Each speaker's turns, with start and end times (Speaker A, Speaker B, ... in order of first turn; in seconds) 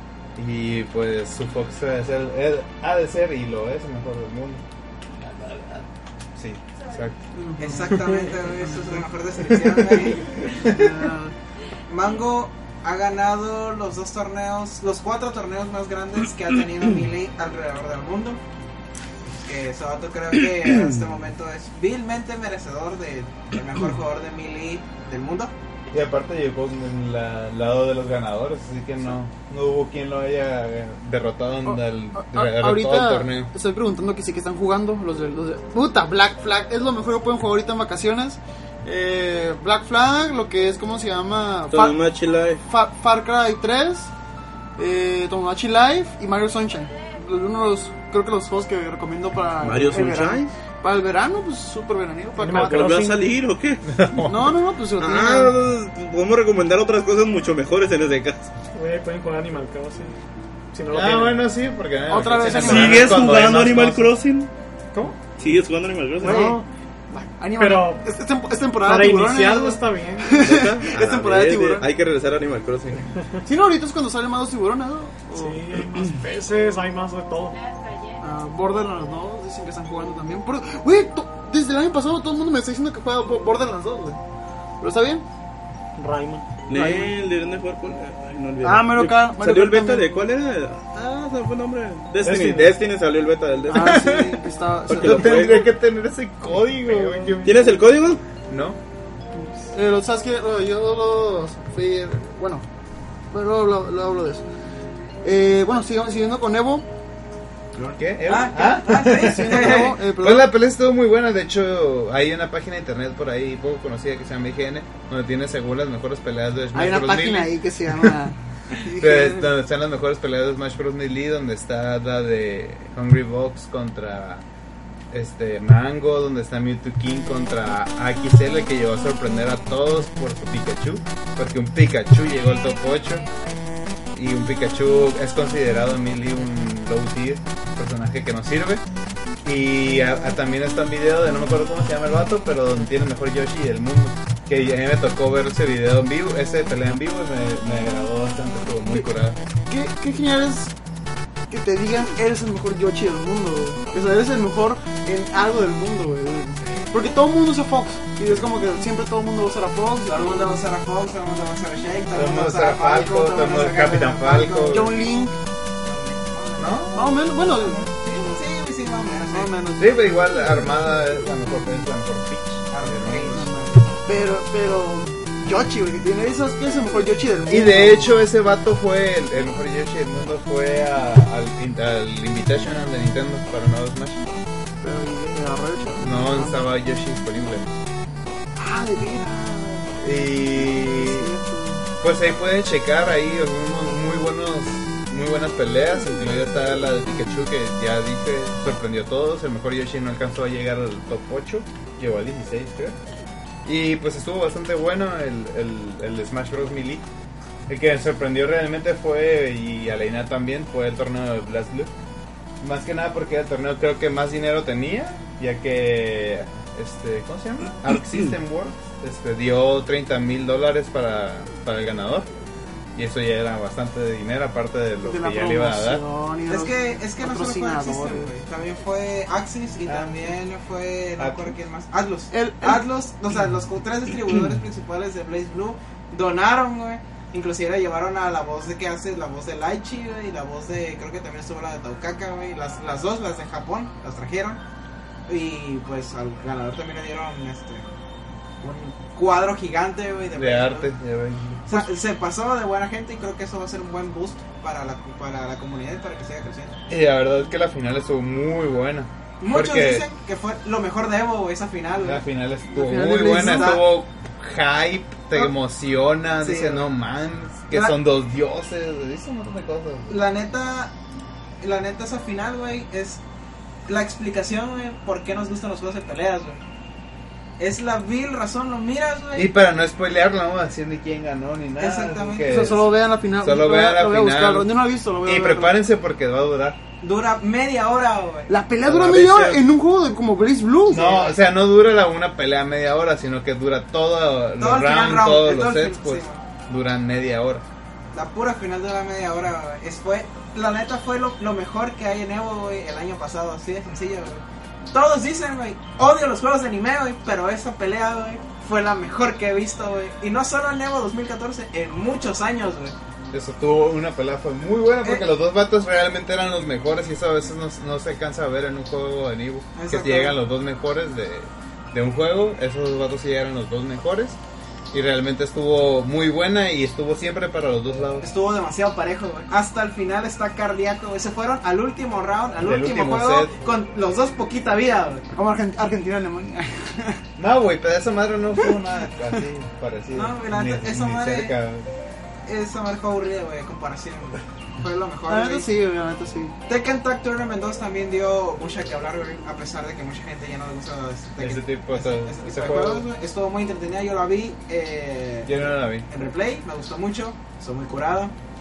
Speaker A: 0.3-4.6, 5.2-5.8, 6.3-7.2, 9.5-10.9, 25.9-33.5, 53.9-54.5, 60.9-64.2, 95.0-97.8, 98.3-98.8, 108.0-118.1, 118.9-124.4, 125.1-133.2, 134.1-138.8, 139.4-149.4, 162.1-165.0, 166.6-167.2, 169.8-173.5, 177.5-184.2, 186.0-187.7, 190.0-191.3, 192.0-203.0, 203.6-207.0, 207.7-211.9, 212.6-222.3, 222.9-226.0, 229.8-230.4, 231.2-231.6, 250.3-251.8, 256.9-260.1, 262.0-270.2, 279.3-286.8, 290.9-297.6, 313.3-324.4, 324.9-328.3, 332.6-333.6, 337.4-341.9, 351.4-353.1, 355.4-356.1
Speaker B: 6.8-7.1, 46.6-47.3, 77.5-78.3, 132.8-133.6
Speaker C: 7.3-9.0, 10.5-11.3, 31.6-42.0, 42.6-44.1, 44.8-52.8, 54.2-55.6, 62.1-63.2, 66.2-71.9, 73.4-75.6, 78.2-84.2, 84.8-85.2, 86.7-87.1, 88.6-90.1, 93.7-95.5, 99.7-102.7, 103.3-104.4, 105.2-106.9, 108.9-110.5, 116.7-119.5, 149.7-150.7, 151.5-160.6, 164.6-165.4, 166.9-167.9, 169.3-170.6, 173.3-178.2, 184.8-186.6, 188.6-191.8, 225.0-228.3, 232.3-232.8, 262.7-263.8, 282.4-285.8, 288.5-291.1, 335.3-337.2, 345.3-346.5
Speaker D: 7.6-10.7, 11.9-18.4, 19.2-25.5, 107.7-109.9, 160.1-165.0, 165.8-169.5, 172.7-173.5, 226.5-244.6, 245.3-247.9, 248.6-250.9, 251.7-256.8, 259.4-262.2, 263.1-263.8, 266.4-266.9, 267.7-267.9, 270.1-270.9, 271.6-273.2, 273.9-276.6, 277.6-279.5, 281.8-282.7, 287.0-288.5, 290.9-291.4, 294.6-296.4, 298.1-312.9, 319.7-320.4, 328.2-335.2, 340.1-341.5, 342.4-345.7, 346.7-358.3
Speaker E: 41.7-42.6, 49.6-50.5, 52.6-53.9, 55.0-58.5, 62.4-64.5, 65.3-66.6, 70.3-73.1, 86.7-95.7, 97.4-98.2, 288.8-289.6
Speaker F: 52.4-53.3, 58.7-60.1, 60.7-61.5, 64.9-65.2, 66.2-66.7, 67.5-68.1, 68.8-70.4, 75.3-77.6, 86.0-86.5, 92.2-92.8, 96.7-97.9